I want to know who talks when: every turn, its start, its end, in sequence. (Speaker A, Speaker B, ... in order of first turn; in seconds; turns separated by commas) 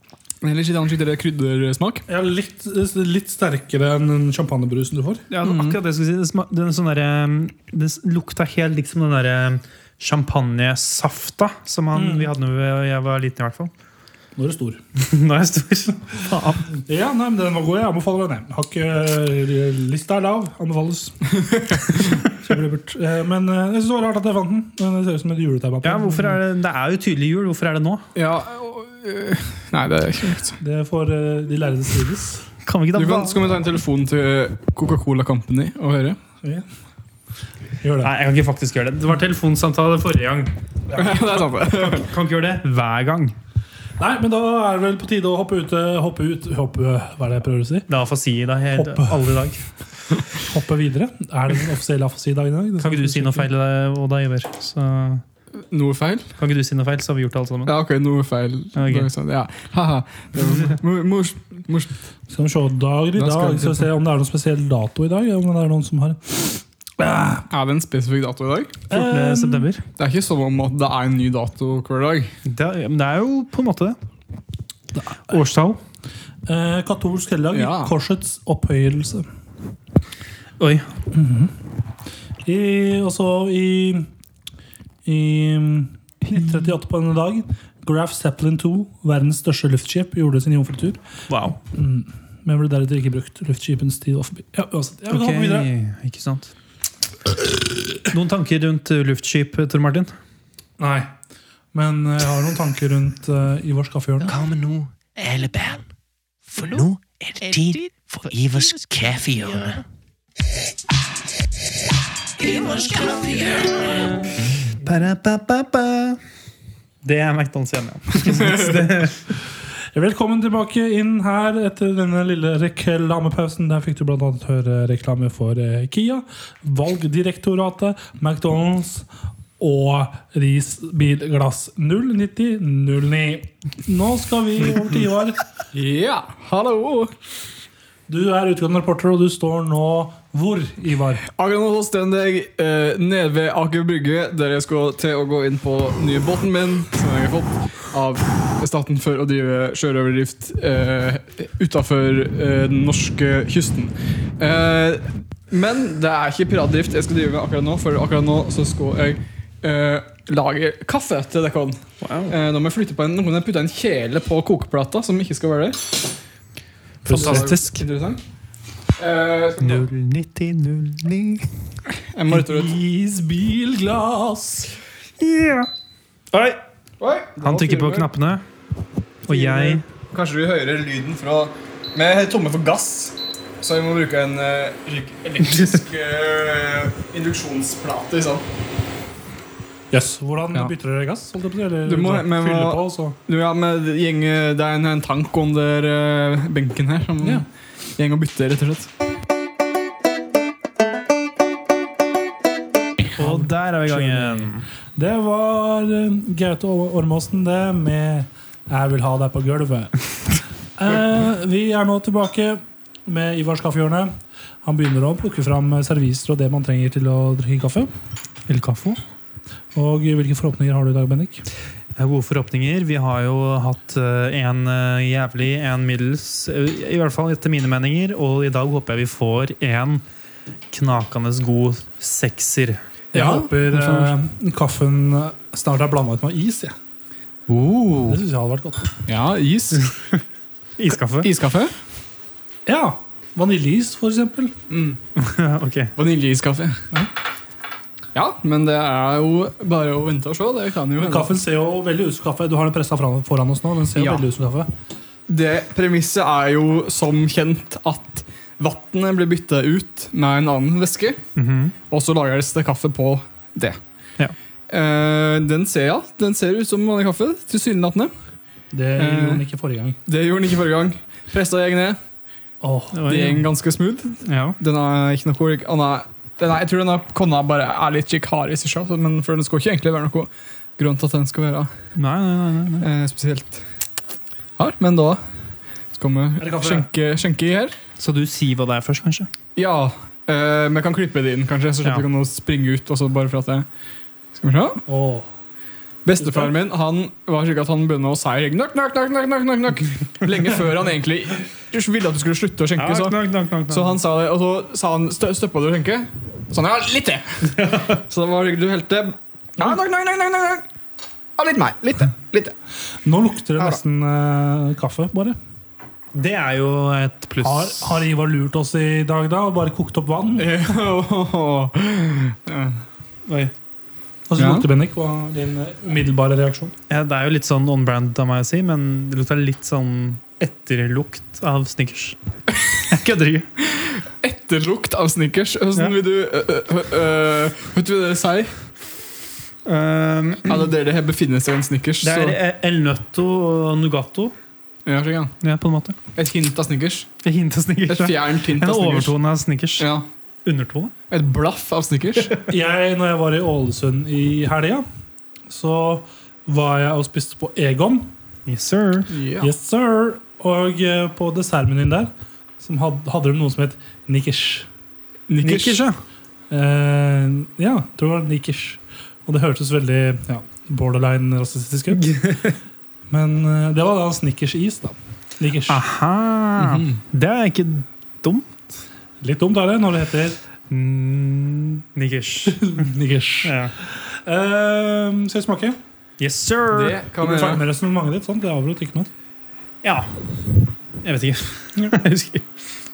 Speaker A: 0.4-2.0, Speaker B: 2.1-5.3, Speaker C: 5.3-13.7, Speaker A: 5.4-5.8, Speaker B: 11.9-12.3, Speaker B: 14.3-14.8, Speaker C: 14.9-16.7, Speaker B: 16.8-21.3, Speaker B: 21.9-26.4, Speaker C: 25.8-28.0, Speaker A: 28.1-30.6, Speaker B: 30.6-32.4, Speaker C: 32.6-33.4, Speaker A: 32.9-36.2, Speaker B: 37.8-38.1, Speaker C: 38.0-40.5, Speaker B: 40.9-41.2, Speaker A: 41.0-42.1, Speaker C: 41.8-43.4, Speaker B: 44.0-47.9, Speaker C: 47.9-49.6, Speaker B: 48.7-49.2, Speaker B: 50.4-53.5, Speaker C: 52.8-55.2, Speaker A: 55.7-56.3, Speaker C: 56.4-57.7, Speaker A: 57.6-61.9, Speaker C: 58.8-59.1, Speaker B: 62.3-67.5, Speaker A: 63.2-63.9, Speaker A: 67.5-68.8, Speaker B: 68.9-69.7, Speaker C: 68.9-69.8, Speaker A: 70.0-72.3, Speaker C: 72.5-74.0, Speaker C: 75.3-75.8, Speaker B: 76.5-79.2, Speaker A: 77.5-77.9, Speaker C: 80.6-80.9, Speaker B: 81.1-81.5, Speaker B: 82.4-84.1, Speaker B: 85.0-91.0, Speaker C: 91.3-91.6, Speaker B: 91.7-95.7, Speaker C: 95.1-96.5, Speaker C: 98.1-100.1, Speaker B: 100.8-101.1, Speaker B: 101.7-104.3, Speaker D: 104.2-105.8, Speaker D: 106.5-109.8, Speaker D: 112.4-113.8, Speaker C: 114.8-116.2, Speaker C: 117.0-119.2, Speaker A: 118.2-118.8, Speaker B: 119.9-129.1, Speaker B: 129.6-135.4, Speaker A: 135.7-137.1, Speaker B: 138.1-141.2, Speaker A: 141.3-166.0, Speaker C: 162.0-162.3, Speaker B: 167.1-167.5, Speaker C: 167.1-167.8, Speaker A: 167.1-168.2, Speaker A: 169.0-169.9, Speaker C: 169.6-171.7, Speaker A: 172.1-172.8, Speaker B: 172.5-174.7, Speaker C: 175.2-175.7, Speaker C: 176.3-176.6, Speaker A: 177.0-178.1, Speaker C: 177.4-178.4, Speaker C: 179.3-179.8, Speaker A: 179.3-188.5, Speaker B: 189.9-193.2, Speaker A: 191.8-197.4, Speaker A: 198.0-198.9, Speaker C: 203.2-204.6, Speaker B: 203.2-209.9, Speaker B: 210.8-214.1, Speaker B: 214.6-217.9, Speaker C: 218.5-219.0, Speaker B: 219.7-221.4, Speaker C: 221.9-230.0, Speaker C: 230.7-232.8, Speaker B: 233.1-236.7, Speaker A: 233.1-234.1, Speaker A: 237.5-238.2, Speaker B: 238.1-239.0, Speaker A: 239.1-239.9, Speaker C: 240.8-241.3, Speaker A: 241.2-241.7, Speaker B: 242.7-244.5, Speaker A: 244.7-245.0, Speaker C: 245.2-245.9, Speaker A: 245.9-246.8, Speaker A: 248.1-251.3, Speaker B: 251.0-254.7, Speaker A: 253.9-254.2, Speaker A: 255.3-261.2, Speaker C: 261.4-261.7, Speaker A: 261.9-263.8, Speaker A: 264.7-268.1, Speaker B: 268.7-270.0, Speaker A: 269.0-269.4, Speaker A: 270.1-272.0, Speaker B: 272.6-273.0, Speaker C: 272.9-273.5, Speaker A: 273.1-281.7, Speaker C: 274.2-274.6, Speaker C: 281.9-282.9, Speaker A: 282.8-283.6, Speaker A: 284.6-285.2, Speaker A: 285.9-287.7, Speaker B: 286.4-286.9, Speaker C: 288.0-289.3, Speaker A: 289.6-293.6, Speaker A: 294.4-294.8, Speaker B: 294.9-295.3, Speaker A: 296.0-310.6, Speaker B: 296.2-296.5, Speaker C: 302.8-304.0, Speaker C: 307.5-308.0, Speaker A: 311.4-312.5, Speaker B: 313.0-315.4, Speaker C: 316.1-318.0, Speaker B: 317.4-320.7, Speaker A: 320.4-322.8, Speaker C: 323.2-323.5, Speaker B: 324.3-326.7, Speaker A: 324.4-324.7, Speaker C: 326.9-332.2, Speaker C: 332.9-333.5, Speaker A: 333.6-338.7, Speaker C: 339.6-340.7, Speaker A: 340.5-342.4, Speaker C: 342.0-344.3, Speaker A: 344.9-345.3, Speaker C: 345.4-346.0, Speaker A: 346.1-347.1, Speaker C: 347.2-349.9, Speaker A: 347.9-349.1, Speaker A: 349.8-350.0, Speaker C: 350.4-350.9, Speaker A: 351.1-352.3, Speaker B: 352.5-354.8, Speaker B: 355.5-358.1, Speaker C: 358.4-359.1, Speaker A: 359.1-359.5, Speaker B: 359.4-364.7, Speaker A: 365.3-365.8, Speaker C: 365.4-366.0, Speaker B: 366.5-372.1, Speaker C: 371.9-372.6, Speaker B: 373.1-375.8, Speaker C: 375.7-378.8, Speaker A: 376.6-376.9, Speaker B: 379.2-380.4, Speaker C: 380.7-382.9, Speaker B: 382.5-385.8, Speaker C: 383.4-383.7, Speaker C: 386.2-387.0, Speaker A: 386.7-387.6, Speaker B: 387.2-389.1, Speaker C: 389.8-390.1, Speaker C: 391.0-392.4